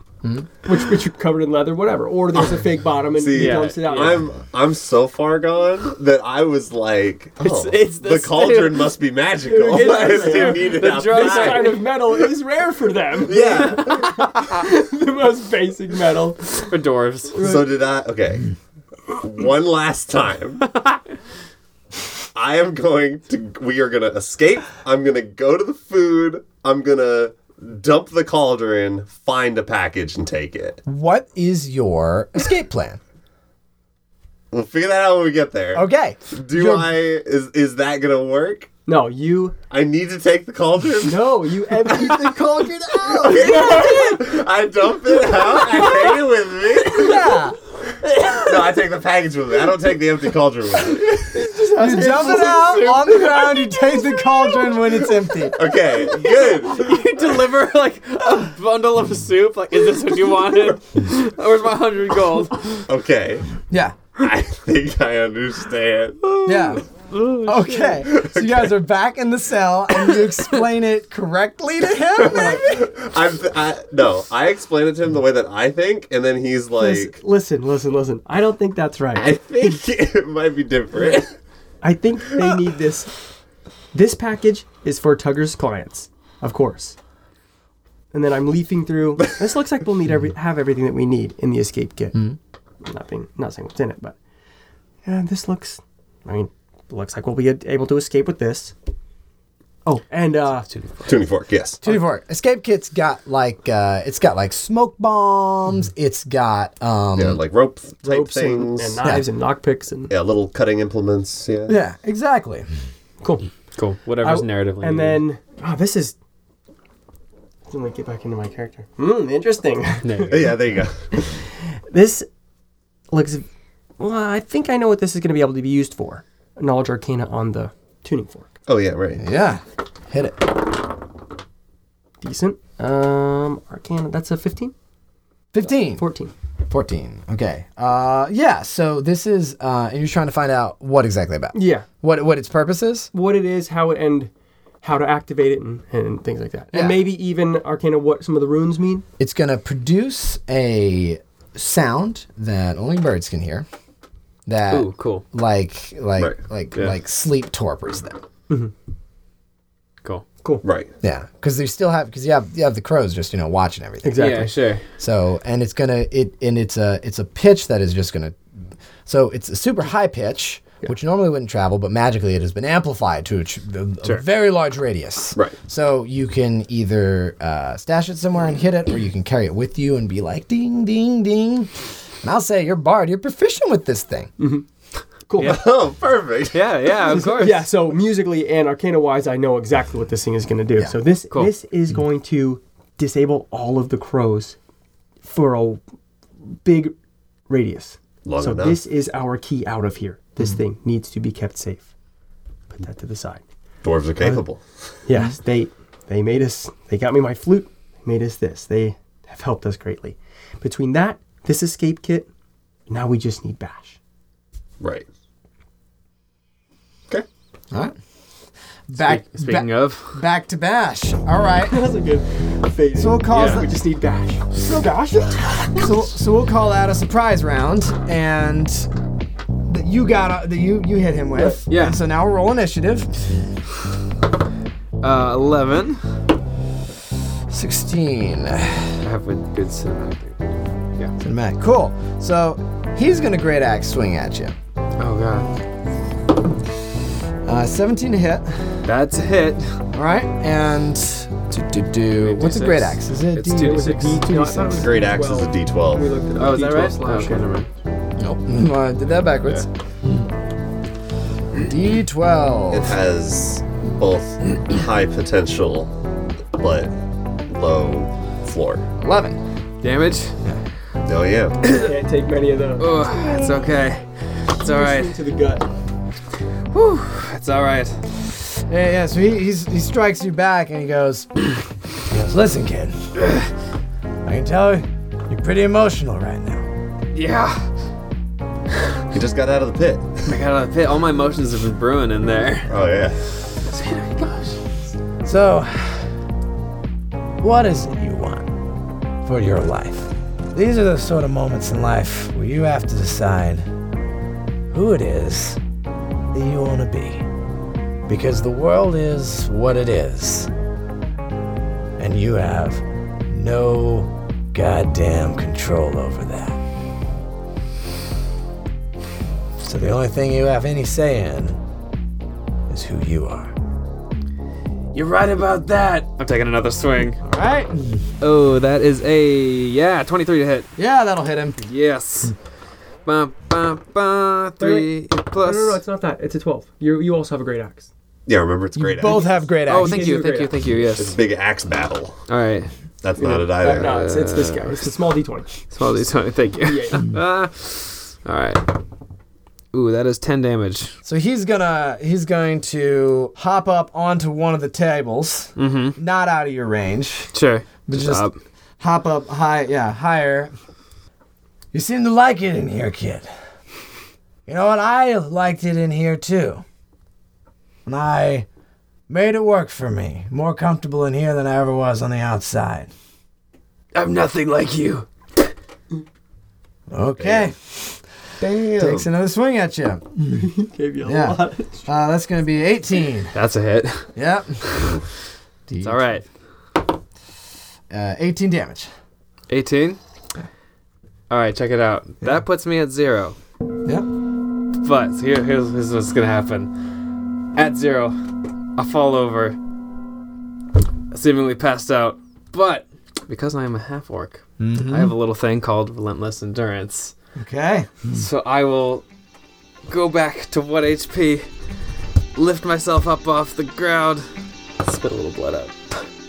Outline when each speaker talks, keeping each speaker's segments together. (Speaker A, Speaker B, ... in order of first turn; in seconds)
Speaker A: 0.7-4.3, 9.4-16.5, 17.3-17.7, 38.9-39.6, 41.0-44.1, 51.0-54.1, 72.3-72.6, 76.8-79.8, 81.8-83.1, 83.9-87.0, 88.1-92.2, 92.8-94.2, 95.0-98.7, 100.1-100.7, 108.0-110.1, 113.2-113.5, 114.2-116.2, 117.7-120.6, 121.1-122.3, 123.1-123.5, 124.0-128.5, 132.2-134.7, 136.0-136.3, 141.5-141.9, 143.1-144.3, 144.8-149.1, 164.0-164.5, 184.4-184.7, 185.3-185.6, 187.0-194.6, 195.2-195.8, 196.4-196.9, 197.5-201.9, 202.8-203.4, 205.1-212.3, 212.9-214.0, 221.6-226.0, 253.6-257.5, 271.7-273.1, 274.6-275.7, 334.6-334.9, 335.4-337.9, 339.1-340.6, 343.2-345.6, 346.6-347.1, 380.4-381.9
Speaker B: 2.4-11.8, 13.2-14.1, 17.4-18.5, 19.1-20.7, 22.4-30.8, 34.5-38.7, 39.7-42.4, 43.0-47.3, 48.2-51.3, 55.6-57.0, 62.9-63.5, 64.2-66.2, 68.1-68.8, 72.3-77.2, 79.1-81.3, 101.0-101.8, 107.2-109.0, 110.1-111.8, 120.3-121.1, 128.7-129.2, 160.6-160.9, 185.4-186.6, 198.2-198.8, 203.8-204.9, 214.8-215.1, 254.8-256.1, 262.7-265.9, 266.6-266.9, 267.5-268.8, 271.1-271.6, 289.1-290.3, 292.7-293.2, 338.3-339.4, 340.9-342.2, 343.0-344.0, 377.2-377.5, 378.4-379.1
Speaker C: 3.3-4.2, 7.4-8.9, 9.6-11.8, 13.6-14.6, 16.5-17.4, 20.8-21.0, 56.4-62.9, 66.2-68.1, 69.9-70.4, 100.7-101.1, 113.7-115.2, 120.0-120.6, 154.7-155.2, 164.2-164.8, 186.5-187.7, 219.0-220.2, 223.3-223.7, 231.7-232.0, 235.0-236.0, 239.0-241.1, 245.0-245.5, 248.8-249.8, 252.2-254.3, 256.4-257.7, 269.8-270.4, 271.6-271.9, 272.8-275.2, 276.7-278.0, 287.1-287.7, 290.3-292.7, 293.6-294.6, 324.9-327.2, 328.2-330.7, 331.6-332.3, 333.1-335.8, 339.7-341.2, 342.3-342.7, 343.6-344.9, 345.7-348.7, 349.7-350.9, 355.6-356.0, 357.3-358.4, 373.9-375.1, 383.3-384.1, 385.8-386.2, 389.5-390.0, 391.3-393.4, 394.8-396.7, 397.6-398.2, 398.8-399.6, 401.1-407.1, 408.1-409.0, 409.9-411.5, 412.4-414.2, 414.8-416.1
Speaker D: 30.9-33.0, 35.7-36.9, 46.9-47.6, 51.8-55.6, 63.7-64.0, 66.5-66.8, 67.4-72.9, 101.8-107.4, 111.7-112.7, 129.2-130.5, 135.5-136.1, 136.7-143.1, 146.7-147.0, 149.2-153.7, 154.5-158.2, 161.0-168.4, 169.1-181.7, 182.2-184.3, 218.9-221.9, 222.9-223.7, 225.7-228.9, 229.7-233.3, 237.5-239.0, 241.2-244.6, 247.4-248.8, 249.9-254.9, 258.2-259.7, 261.6-262.9, 269.0-269.4, 273.0-273.5, 278.7-281.3, 282.1-283.1, 284.2-286.7, 295.2-296.1, 297.4-298.5, 299.2-303.7, 304.7-305.6, 306.3-307.3, 308.1-310.5, 312.0-316.6, 319.6-321.6, 322.7-323.5, 327.2-328.1, 330.8-331.6, 338.8-340.3, 351.1-357.3, 357.9-358.2, 358.8-360.5, 361.7-363.3, 364.5-366.6, 367.9-368.5, 369.1-372.9, 376.9-378.0, 378.8-380.5, 381.0-383.3, 384.2-384.6, 385.7-386.2, 387.9-388.9, 404.6-405.1, 407.4-408.1